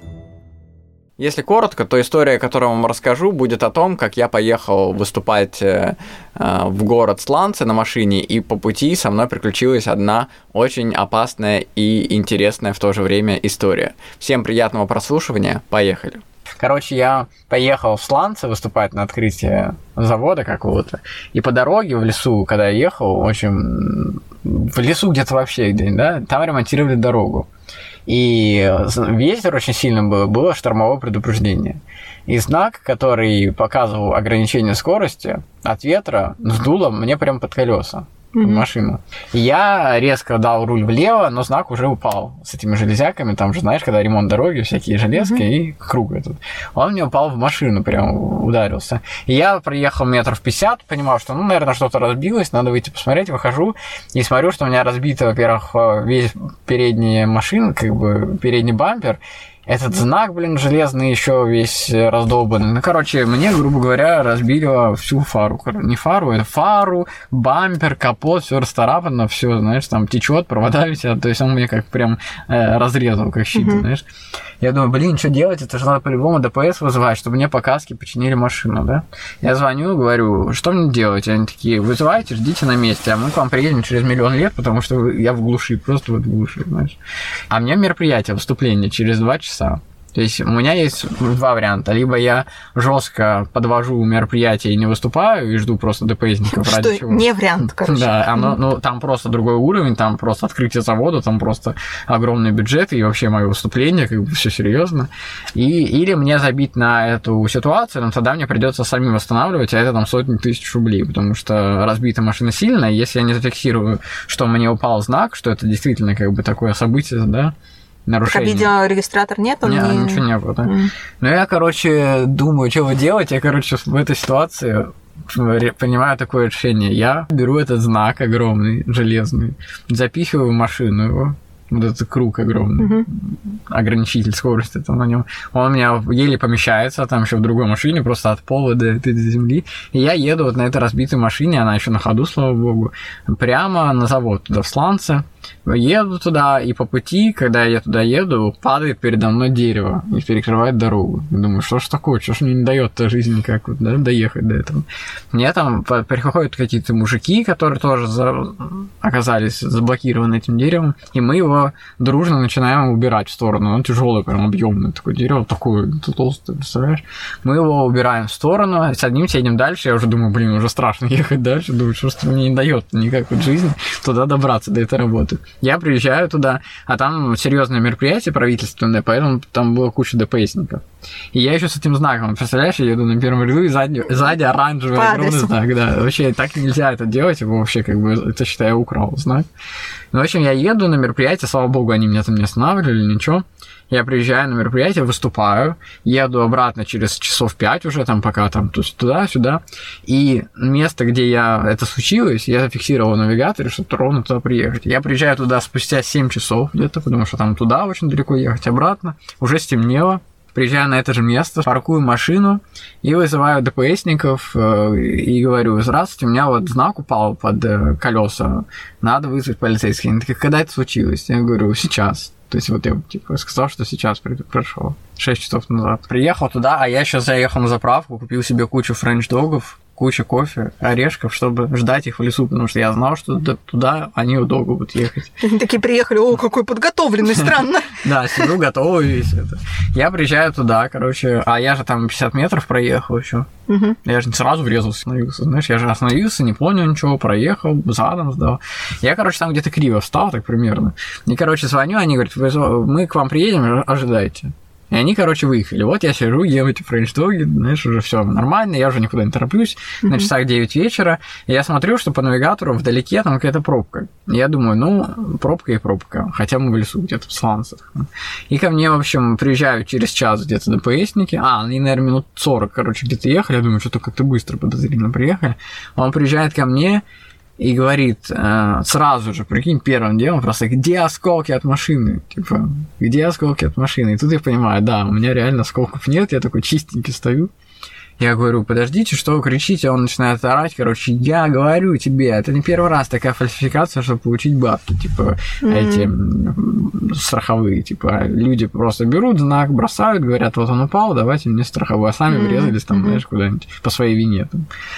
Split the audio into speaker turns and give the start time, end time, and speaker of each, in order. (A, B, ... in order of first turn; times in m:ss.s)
0:01.2-0:27.5 A
0:28.1-1:14.0 A
0:38.3-0:38.6 B
0:45.1-0:45.4 B
1:13.5-1:13.8 B
1:14.6-1:27.0 A
1:27.5-1:57.5 A
1:36.5-1:38.6 B
1:58.0-1:58.7 A
1:58.2-2:00.9 B
1:59.6-3:09.5 A
2:12.8-2:13.0 B
3:04.9-3:05.5 B
3:10.1-3:55.4 A
3:55.4-3:58.5 B
3:57.3-4:03.5 A
4:03.7-4:04.0 B
4:04.0-4:37.0 A
4:37.6-4:47.5 A
4:48.2-5:04.6 A
4:55.6-4:56.1 B
5:02.3-5:03.2 B